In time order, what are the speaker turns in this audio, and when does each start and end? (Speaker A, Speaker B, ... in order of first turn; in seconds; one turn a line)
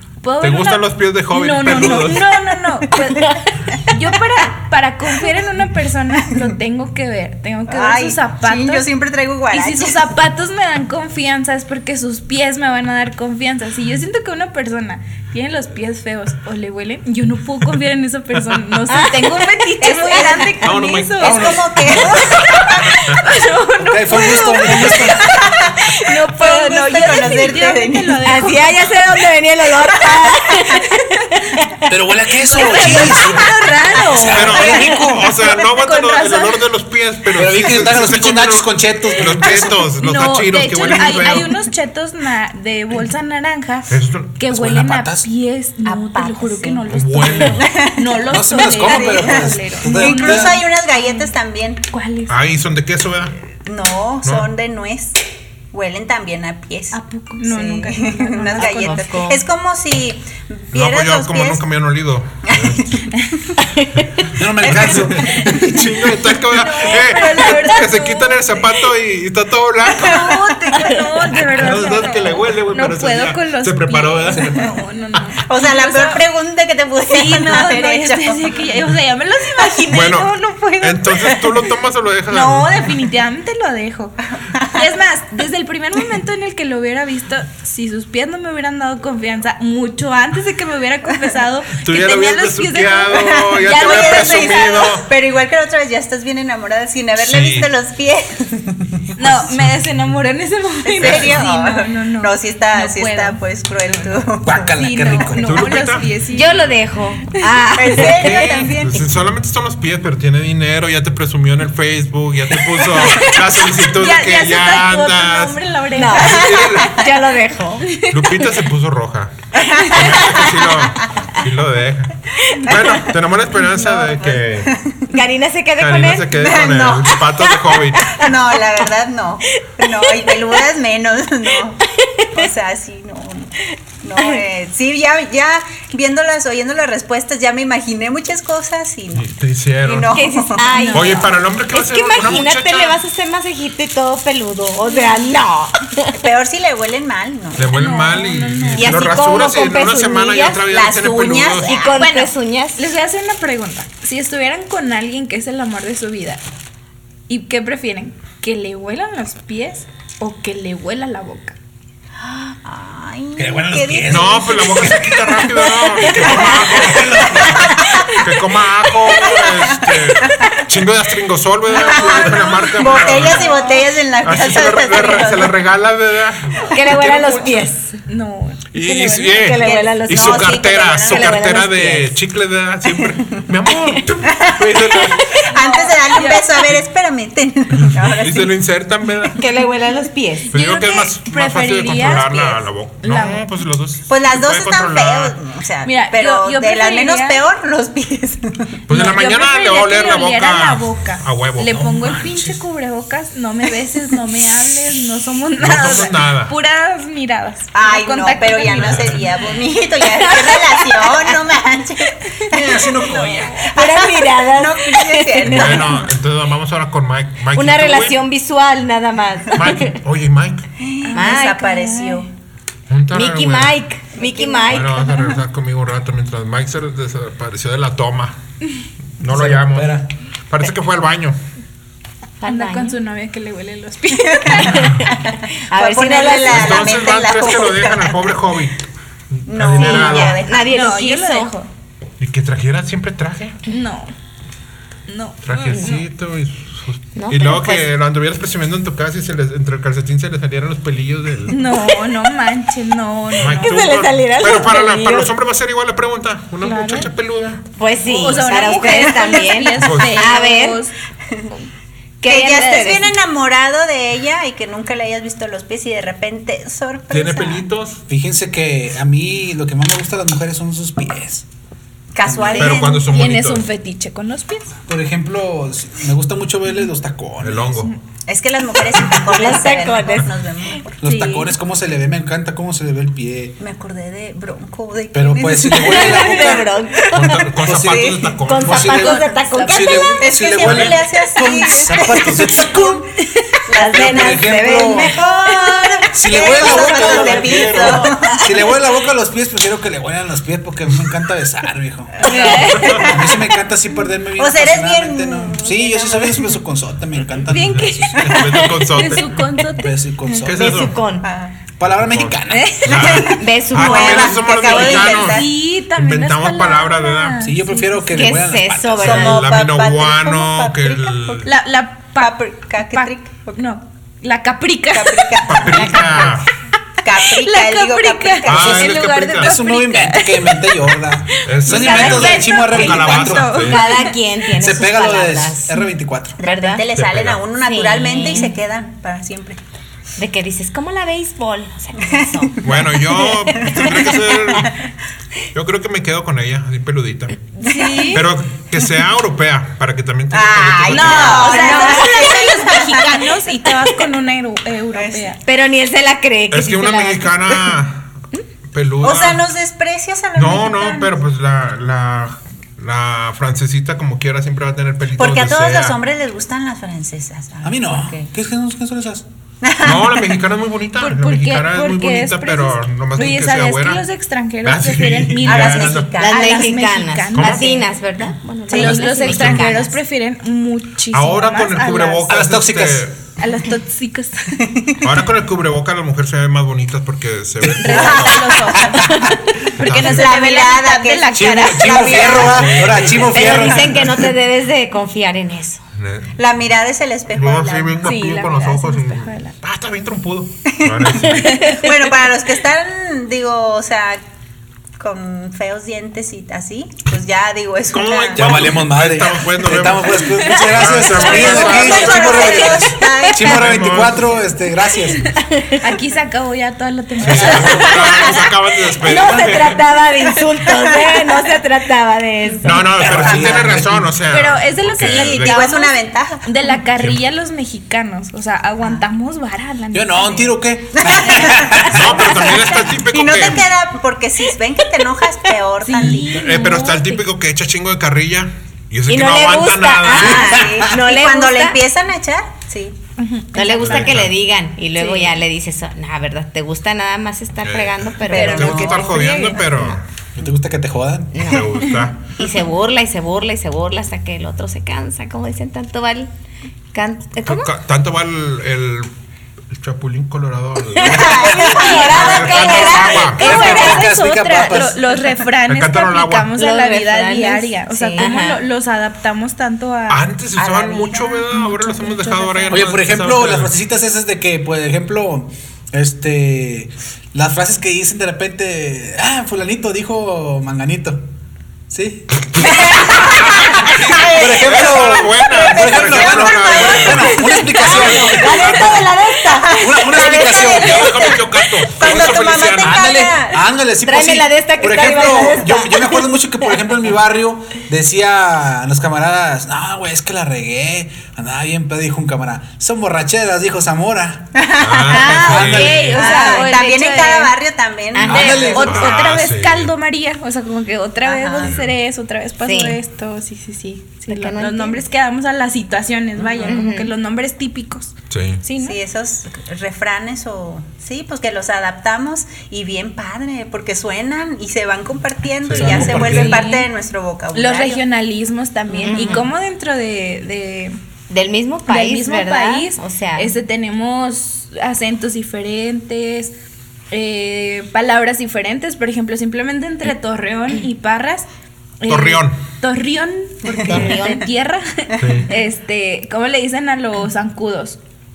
Speaker A: 0.2-8.9
Speaker B: 0.4-2.3
Speaker C: 7.7-10.1
Speaker A: 9.5-21.4
Speaker D: 18.9-19.7
Speaker C: 19.8-22.8
Speaker B: 20.6-21.5
Speaker E: 21.2-21.9
Speaker B: 22.4-23.2
Speaker A: 22.5-28.8
Speaker E: 23.8-25.3
Speaker C: 25.2-28.2
Speaker D: 28.2-31.8
Speaker E: 31.9-35.3
Speaker A: 32.4-36.6
Speaker D: 32.5-34.7
Speaker B: 34.3-41.5
Speaker E: 37.3-39.8
Speaker A: 40.0-51.3
Speaker B: 43.9-44.4
Speaker E: 44.5-45.3
Speaker C: 45.8-46.8
Speaker B: 46.9-47.6
Speaker C: 47.4-51.8
Speaker E: 48.3-50.6
Speaker A: 51.9-52.4
Speaker B: 52.3-53.3
Speaker C: 53.6-55.2
Speaker B: 54.2-54.5
Speaker C: 55.7-61.6
Speaker A: 56.9-59.1
Speaker D: 58.5-59.4
Speaker B: 60.7-63.0
Speaker C: 62.5-63.6
Speaker E: 64.3-65.9
Speaker B: 64.6-70.3
Speaker C: 64.6-65.2
Speaker A: 66.5-68.6
Speaker A: 69.9-76.2
Speaker C: 69.9-71.2
Speaker B: 71.4-74.6
Speaker E: 74.3-74.5
Speaker C: 75.4-78.7
Speaker A: 77.1-81.3
Speaker C: 79.6-79.9
Speaker B: 79.9-82.9
Speaker C: 81.0-81.4
Speaker A: 82.3-84.2
Speaker C: 84.5-84.8
Speaker A: 84.7-94.8
Speaker B: 91.7-95.1
Speaker C: 93.2-99.0
Speaker B: 97.2-97.7
Speaker A: 99.2-103.4
Speaker C: 101.0-104.7
Speaker B: 101.0-101.4
Speaker E: 104.4-105.6
Speaker A: 104.8-106.7
Speaker B: 105.4-106.1
Speaker D: 106.3-108.5
Speaker C: 107.8-109.1
Speaker B: 108.1-115.6
Speaker A: 113.8-116.4
Speaker D: 116.0-117.9
Speaker B: 116.1-117.0
Speaker C: 116.2-117.0
Speaker A: 117.9-118.4
Speaker B: 117.9-119.3
Speaker C: 119.6-120.8
Speaker B: 119.8-124.7
Speaker C: 122.7-123.1
Speaker C: 123.7-125.0
Speaker D: 125.1-126.3
Speaker B: 125.8-128.2
Speaker C: 126.3-127.3
Speaker D: 127.5-128.3
Speaker C: 128.1-140.7
Speaker D: 129.8-130.6
Speaker D: 132.0-132.4
Speaker D: 134.2-134.4
Speaker B: 139.1-140.1
Speaker D: 140.1-146.2
Speaker A: 140.7-141.3
Speaker B: 140.9-143.0
Speaker A: 144.9-145.2
Speaker C: 146.1-147.7
Speaker B: 147.6-151.7
Speaker A: 147.7-149.1
Speaker D: 148.8-150.6
Speaker C: 150.7-152.0
Speaker D: 151.6-152.8
Speaker A: 152.0-156.4
Speaker A: 157.3-161.6
Speaker C: 162.2-165.1
Speaker E: 163.3-165.1
Speaker B: 164.1-173.5
Speaker C: 166.2-168.1
Speaker E: 166.6-167.8
Speaker C: 169.2-170.6
Speaker C: 171.7-175.6
Speaker A: 173.0-173.8
Speaker B: 174.2-177.6
Speaker D: 176.7-178.0
Speaker A: 178.1-179.5
Speaker B: 178.7-185.3
Speaker D: 178.8-182.1
Speaker C: 179.6-181.6
Speaker C: 184.3-184.9
Speaker D: 185.2-185.4
Speaker C: 185.5-188.6
Speaker A: 185.5-186.5
Speaker B: 187.8-189.4
Speaker D: 189.4-190.5
Speaker A: 190.5-193.4
Speaker B: 190.5-195.3
Speaker C: 194.1-198.7
Speaker A: 195.8-197.4
Speaker B: 198.9-202.4
Speaker A: 198.9-209.2
Speaker E: 202.0-202.4
Speaker B: 205.6-206.5
Speaker C: 207.7-216.1
Speaker B: 208.7-209.2
Speaker D: 210.1-211.3
Speaker E: 212.5-213.5
Speaker D: 213.6-215.9
Speaker B: 215.4-218.2
Speaker D: 217.5-220.0
Speaker B: 219.5-220.7
Speaker C: 220.8-222.3
Speaker A: 221.0-222.2
Speaker D: 221.1-221.7
Speaker B: 222.9-223.8
Speaker D: 223.1-225.2
Speaker C: 224.2-225.2
Speaker B: 224.7-228.3
Speaker B: 229.2-231.3
Speaker E: 229.2-230.1
Speaker D: 232.4-232.9
Speaker A: 232.4-234.9
Speaker C: 234.3-238.4
Speaker D: 234.7-235.1
Speaker D: 235.7-237.0
Speaker B: 236.4-238.8
Speaker B: 239.3-240.4
Speaker C: 239.5-240.6
Speaker D: 239.8-241.5
Speaker A: 240.5-241.7
Speaker B: 242.2-243.6
Speaker A: 243.7-244.1
Speaker A: 245.1-246.0
Speaker B: 245.4-251.6
Speaker D: 247.2-247.9
Speaker A: 251.5-253.8
Speaker B: 253.4-257.6
Speaker D: 253.4-255.3
Speaker A: 256.6-257.1
Speaker D: 257.8-260.8
Speaker A: 258.1-260.9
Speaker C: 258.6-259.4
Speaker B: 259.8-260.2
Speaker D: 262.2-263.1
Speaker C: 262.2-267.7
Speaker B: 267.1-268.0
Speaker E: 268.1-271.4
Speaker C: 272.1-273.1
Speaker E: 272.2-272.7
Speaker B: 272.6-273.7
Speaker A: 272.6-274.7
Speaker E: 274.9-277.8
Speaker B: 277.4-277.9
Speaker C: 278.3-281.0
Speaker D: 279.1-280.7
Speaker E: 281.0-283.6
Speaker A: 281.0-281.5
Speaker C: 283.6-288.3
Speaker E: 285.1-293.1
Speaker D: 285.7-287.5
Speaker B: 287.1-289.1
Speaker D: 288.4-290.2
Speaker A: 288.9-290.2
Speaker C: 290.2-293.0
Speaker B: 290.6-290.9
Speaker D: 293.5-298.5
Speaker C: 293.7-298.5
Speaker E: 293.9-295.1
Speaker E: 296.1-308.3
Speaker B: 297.2-298.0
Speaker C: 302.2-303.5
Speaker A: 302.2-303.1
Speaker B: 302.8-303.0
Speaker C: 304.4-306.5
Speaker A: 307.5-309.9
Speaker B: 308.1-309.4
Speaker E: 309.8-310.8
Speaker B: 310.4-311.1
Speaker D: 310.5-311.3
Speaker C: 311.2-311.5
Speaker E: 311.8-313.2
Speaker B: 311.9-317.4
Speaker A: 312.5-313.0
Speaker C: 312.9-315.5
Speaker D: 313.4-315.0
Speaker A: 314.8-318.2
Speaker E: 317.4-319.4
Speaker D: 318.1-319.5
Speaker C: 319.0-321.5
Speaker B: 319.2-321.5
Speaker A: 321.4-325.6
Speaker C: 322.2-323.6
Speaker C: 324.9-326.3
Speaker B: 325.4-326.5
Speaker C: 327.0-329.0
Speaker A: 327.4-330.7
Speaker B: 328.4-329.6
Speaker E: 329.4-333.8
Speaker B: 331.3-333.9
Speaker A: 331.3-334.1
Speaker D: 333.7-335.8
Speaker E: 334.6-336.4
Speaker C: 336.4-339.6
Speaker D: 336.4-336.8
Speaker B: 336.9-337.4
Speaker D: 337.6-338.6
Speaker D: 340.2-342.6
Speaker C: 342.5-344.7
Speaker B: 342.6-344.7
Speaker B: 345.5-347.4
Speaker A: 347.6-348.2
Speaker C: 347.6-348.2
Speaker B: 348.1-351.6
Speaker C: 350.3-353.2
Speaker A: 350.9-355.4
Speaker D: 351.2-352.5
Speaker C: 354.9-355.4
Speaker D: 355.4-357.7
Speaker B: 356.5-358.1
Speaker B: 358.7-359.4
Speaker C: 359.0-361.1
Speaker B: 360.3-366.0
Speaker C: 365.2-368.3
Speaker E: 367.6-369.2
Speaker C: 369.6-370.4
Speaker B: 369.8-374.0
Speaker A: 371.0-377.9
Speaker B: 374.6-376.2
Speaker C: 375.4-376.7
Speaker D: 376.2-379.9
Speaker B: 377.3-377.7
Speaker C: 378.7-379.3
Speaker A: 378.7-382.3
Speaker B: 379.0-379.7
Speaker B: 381.1-383.2
Speaker E: 382.3-383.1
Speaker A: 383.4-384.6
Speaker C: 384.6-385.1
Speaker B: 385.0-388.6
Speaker E: 387.6-388.0
Speaker A: 387.8-392.6
Speaker C: 387.9-388.9
Speaker B: 389.8-390.3
Speaker C: 389.9-393.1
Speaker E: 391.3-394.3
Speaker B: 392.3-393.7
Speaker D: 393.3-395.8
Speaker B: 396.0-396.3
Speaker C: 396.4-398.1
Speaker B: 397.3-401.7
Speaker A: 398.0-399.5
Speaker C: 400.7-404.2
Speaker C: 405.0-408.7
Speaker B: 407.9-414.3
Speaker E: 408.3-415.4
Speaker C: 411.0-413.9
Speaker D: 415.5-415.8
Speaker A: 415.8-418.3
Speaker B: 417.2-419.8
Speaker E: 417.2-417.9
Speaker D: 417.6-423.2
Speaker B: 422.6-425.8
Speaker E: 422.9-424.1
Speaker C: 423.3-423.6
Speaker A: 424.3-430.6
Speaker C: 425.1-426.5
Speaker E: 429.9-432.4
Speaker C: 431.0-431.9
Speaker B: 431.8-433.7
Speaker C: 433.0-436.5
Speaker A: 435.8-437.2
Speaker B: 436.2-440.5
Speaker D: 439.1-441.8
Speaker C: 440.2-442.9
Speaker A: 443.2-444.1
Speaker D: 443.5-449.8
Speaker B: 443.8-444.3
Speaker A: 445.0-445.4
Speaker B: 447.6-450.0
Speaker C: 448.3-449.6
Speaker A: 448.3-449.4
Speaker E: 450.4-451.6
Speaker D: 451.3-456.3
Speaker B: 451.4-452.3
Speaker D: 456.9-457.7
Speaker B: 457.4-459.1
Speaker B: 459.7-463.7
Speaker D: 460.9-464.0
Speaker C: 461.0-463.3
Speaker A: 462.6-470.2
Speaker E: 463.4-465.2
Speaker B: 465.7-466.6
Speaker D: 466.6-468.6
Speaker B: 470.1-473.7
Speaker C: 470.6-471.4
Speaker A: 471.5-472.8
Speaker E: 472.7-481.2
Speaker E: 481.9-489.0
Speaker C: 482.6-493.6
Speaker B: 483.3-489.1
Speaker D: 487.4-490.6
Speaker E: 489.8-491.3
Speaker B: 490.7-493.1
Speaker E: 492.0-506.2
Speaker D: 494.1-496.7
Speaker C: 504.6-505.6
Speaker B: 504.8-506.1
Speaker A: 505.1-507.5
Speaker D: 506.0-507.2
Speaker C: 506.1-509.2
Speaker D: 508.1-508.6
Speaker E: 508.3-509.0
Speaker A: 508.3-519.0
Speaker B: 508.8-509.9
Speaker C: 511.2-511.8
Speaker B: 511.6-511.9
Speaker D: 512.6-513.0
Speaker D: 514.3-515.0
Speaker D: 516.6-517.1
Speaker B: 518.3-518.6
Speaker C: 518.8-528.0
Speaker B: 525.6-526.5
Speaker E: 525.7-526.7
Speaker A: 526.1-526.9
Speaker A: 527.5-531.0
Speaker D: 528.9-529.5
Speaker D: 531.3-533.5
Speaker A: 531.9-536.5
Speaker A: 537.1-541.5
Speaker A: 542.0-548.0
Speaker B: 542.1-542.6
Speaker C: 543.6-544.2
Speaker D: 543.8-544.4
Speaker B: 545.2-545.5